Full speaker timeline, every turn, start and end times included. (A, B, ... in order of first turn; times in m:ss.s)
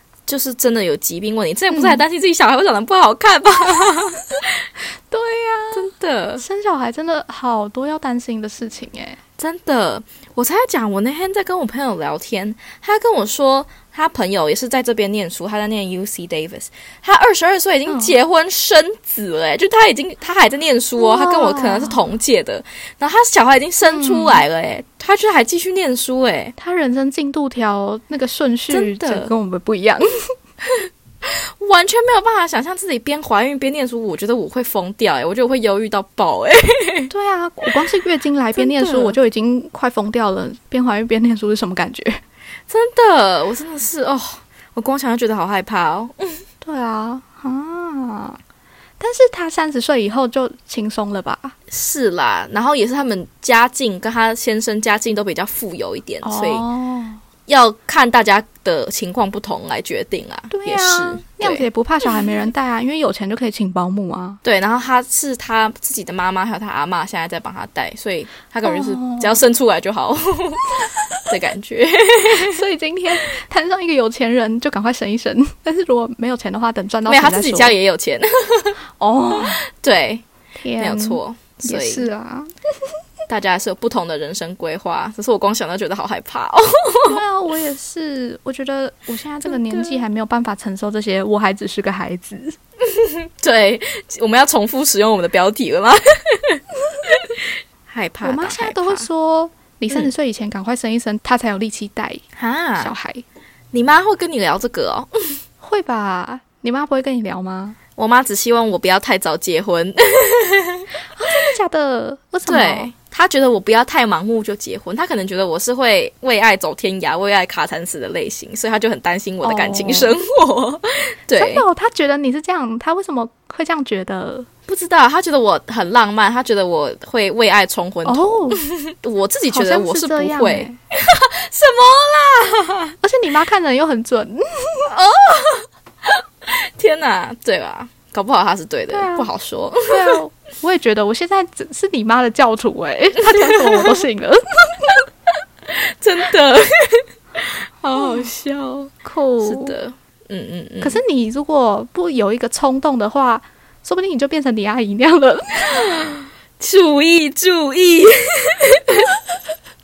0:00.3-0:04.6 A
0:01.7-0:02.0 B
0:05.1-0:09.2 B
0:05.7-0:06.4 A
0:09.4-0:26.5 A
0:17.9-0:18.1 B
0:21.0-0:22.0 B
0:23.8-0:24.4 B
0:26.6-0:30.3 B
0:28.7-0:29.3 A
0:30.6-0:37.1 A
0:37.1-0:42.2 B
0:38.5-0:39.2 A
0:42.7-0:46.4 A
0:46.6-0:48.4 B
0:49.0-0:51.6 B
0:51.7-0:56.6 A
0:56.2-0:57.2 B
0:57.5-1:01.6 A
1:00.5-1:04.4 B
1:04.4-1:12.6 A
1:08.6-1:09.4 B
1:12.3-1:17.7 B
1:17.0-1:18.8 A
1:19.0-1:19.6 B
1:19.4-1:20.2 A
1:20.6-1:22.5 B
1:20.8-1:22.1 A
1:23.3-1:27.2 A
1:27.0-1:32.6 B
1:29.4-1:30.0 A
1:32.8-1:39.0 A
1:38.2-1:42.2 B
1:42.4-1:42.9 A
1:42.8-1:43.2 B
1:43.7-1:45.4 A
1:45.6-1:47.8 B
1:48.0-1:50.9 A
1:51.2-1:52.9 B
1:52.4-2:01.6 A
1:59.4-2:00.2 B
2:01.3-2:04.5 B
2:04.7-2:13.0 A
2:08.0-2:08.6 B
2:09.5-2:10.8 B
2:13.0-2:14.9 B
2:14.9-2:20.2 A
2:18.9-2:19.3 B
2:19.9-2:25.0 B
2:23.2-2:24.0 A
2:25.6-2:31.0 A
2:29.0-2:29.8 B
2:30.8-2:35.9 B
2:35.6-2:39.1 A